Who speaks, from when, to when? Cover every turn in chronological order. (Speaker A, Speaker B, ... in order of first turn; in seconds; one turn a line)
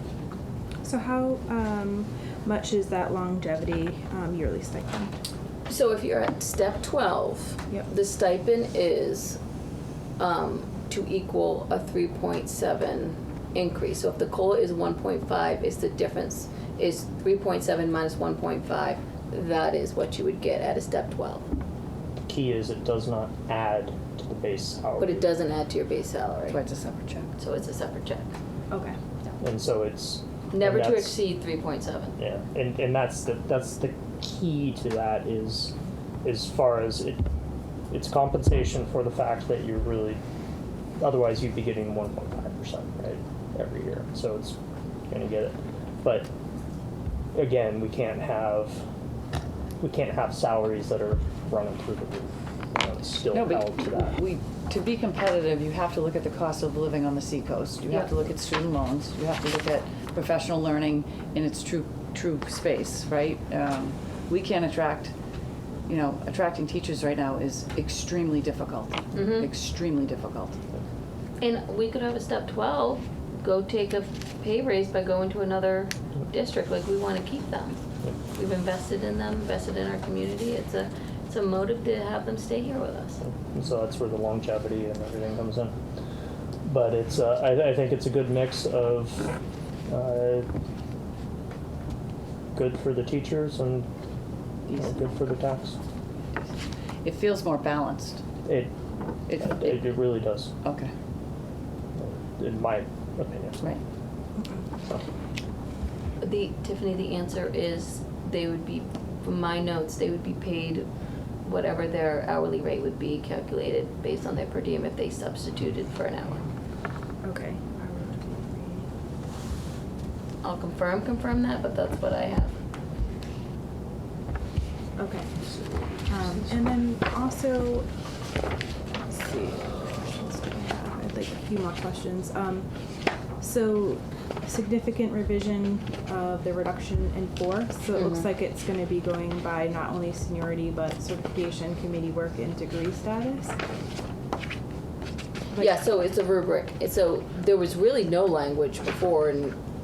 Speaker A: 0.8-5.1
Speaker B: 5.7-9.4
Speaker B: 10.2-21.4
Speaker C: 22.3-25.3
Speaker B: 25.0-26.6
Speaker D: 26.5-27.3
Speaker B: 27.4-28.3
Speaker A: 28.7-29.0
Speaker C: 29.4-31.2
Speaker B: 30.5-32.1
Speaker C: 32.2-37.2
Speaker C: 37.9-40.2
Speaker C: 41.0-44.6
Speaker C: 45.1-46.3
Speaker C: 47.3-48.8
Speaker C: 49.8-54.2
Speaker D: 53.3-65.1
Speaker D: 65.9-70.6
Speaker B: 69.1-69.5
Speaker B: 71.4-77.8
Speaker B: 78.3-83.2
Speaker C: 83.2-85.7
Speaker C: 86.6-89.3
Speaker C: 89.9-90.5
Speaker C: 92.5-93.9
Speaker D: 94.7-95.0
Speaker C: 94.7-95.8
Speaker D: 97.0-98.2
Speaker C: 98.4-98.7
Speaker D: 99.3-100.0
Speaker C: 99.3-100.5
Speaker D: 100.6-100.9
Speaker C: 101.9-103.8
Speaker B: 106.2-110.9
Speaker B: 111.4-116.4
Speaker A: 117.2-118.8
Speaker B: 120.4-122.5
Speaker A: 125.0-125.3
Speaker C: 125.4-126.4
Speaker A: 126.0-127.8
Speaker A: 129.1-132.7
Speaker A: 133.4-143.6
Speaker B: 137.9-138.3
Speaker A: 145.5-145.8
Speaker B: 145.6-149.6